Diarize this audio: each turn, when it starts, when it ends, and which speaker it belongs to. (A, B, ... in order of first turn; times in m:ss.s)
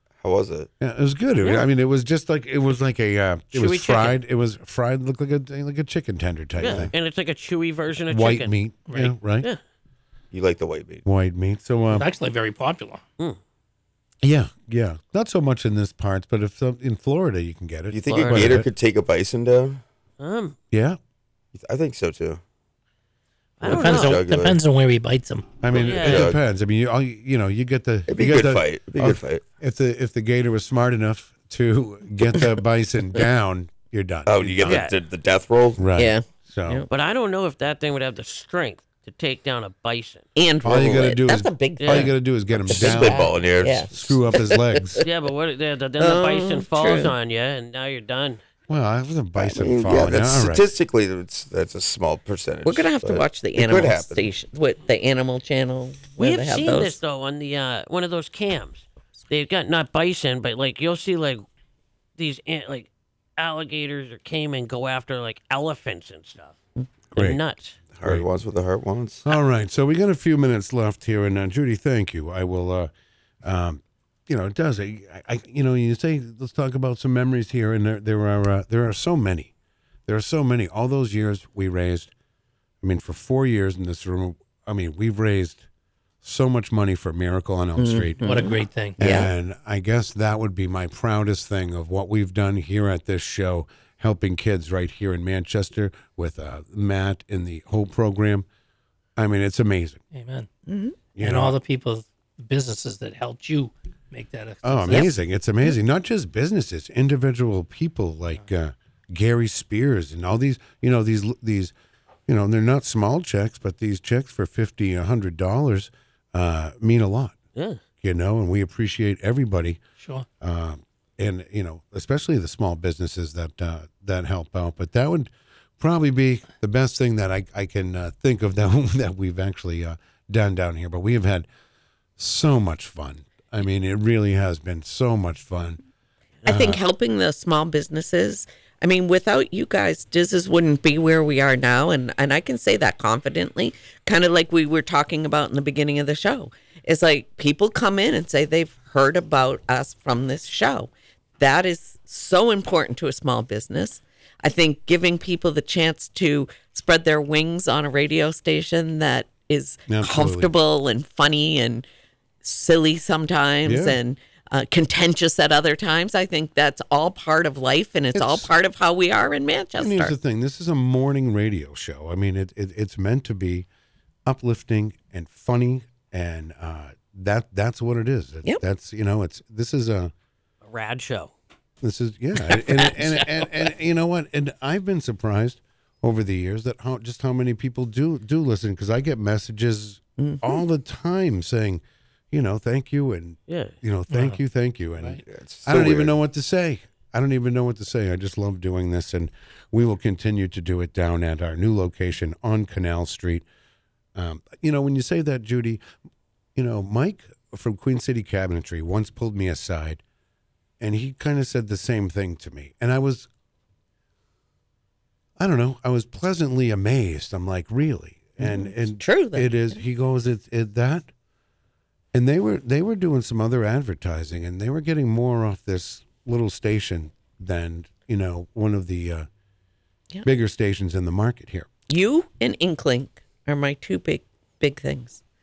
0:00.2-0:00.7 A
0:00.8-0:06.9 B
0:01.4-0:01.7 C
0:03.5-0:04.2 C
0:06.6-0:08.5 C
0:06.6-0:06.9 A
0:08.1-0:09.5 B
0:08.9-0:09.2 D
0:10.3-0:11.0 A
0:11.0-0:12.1 B
0:11.9-0:13.0 D
0:14.2-0:18.7 B
0:17.9-0:19.8 A
0:18.0-0:18.6 C
0:20.2-0:20.6 C
0:20.7-0:21.0 B
0:21.5-0:22.4 A
0:23.6-0:24.2 C
0:23.6-0:24.6 A
0:23.6-0:25.6 D
0:25.6-0:34.9 B
0:25.7-0:26.4 A
0:25.7-0:26.3 C
0:28.1-0:29.4 A
0:34.3-0:35.8 A
0:34.6-0:35.0 C
0:35.8-0:36.8 B
0:36.0-0:36.9 E
0:36.9-0:40.2 C
0:40.4-0:42.1 E
0:40.6-0:43.3 B
0:41.8-0:42.1 C
0:42.7-0:45.0 E
0:42.7-0:44.2 A
0:43.9-0:45.0 B
0:45.0-0:48.4 C
0:46.0-0:47.1 E
0:48.7-0:50.7 B
0:49.4-0:54.3 A
0:52.6-0:57.0 E
0:56.2-1:01.4 C
1:02.2-1:06.6 C
1:07.1-1:07.8 C
1:08.0-1:09.2 A
1:09.2-1:12.9 B
1:13.4-1:19.5 B
1:20.1-1:22.1 B
1:22.8-1:25.7 B
1:26.2-1:28.4 B
1:27.8-1:29.3 E
1:28.2-1:29.0 D
1:29.0-1:38.5 B
1:39.2-1:40.0 B
1:40.1-1:40.5 D
1:40.7-1:41.0 E
1:41.2-1:41.6 B
1:41.2-1:45.1 D
1:44.6-1:51.7 B
1:52.3-1:57.4 B
1:57.6-1:57.8 C
1:58.0-1:59.8 B
2:00.0-2:00.3 D
2:00.4-2:11.5 B
2:12.2-2:15.8 B
2:16.5-2:41.8 E
2:16.5-2:16.8 B
2:39.9-2:40.5 B
2:42.4-2:50.2 E
2:43.6-2:44.0 B
2:48.1-2:48.5 B
2:49.8-2:53.7 B
2:54.3-3:00.1 B
3:00.6-3:01.3 C
3:01.8-3:23.4 B
3:02.5-3:03.4 E
3:10.2-3:10.6 E
3:13.5-3:13.8 C
3:14.1-3:14.4 D
3:15.2-3:16.2 A
3:24.2-3:25.8 B
3:26.6-3:30.0 B
3:30.8-3:33.3 B
3:35.4-3:41.1 B
3:38.4-3:39.8 E
3:42.1-3:49.3 B
3:50.2-3:51.7 B
3:51.9-3:55.2 E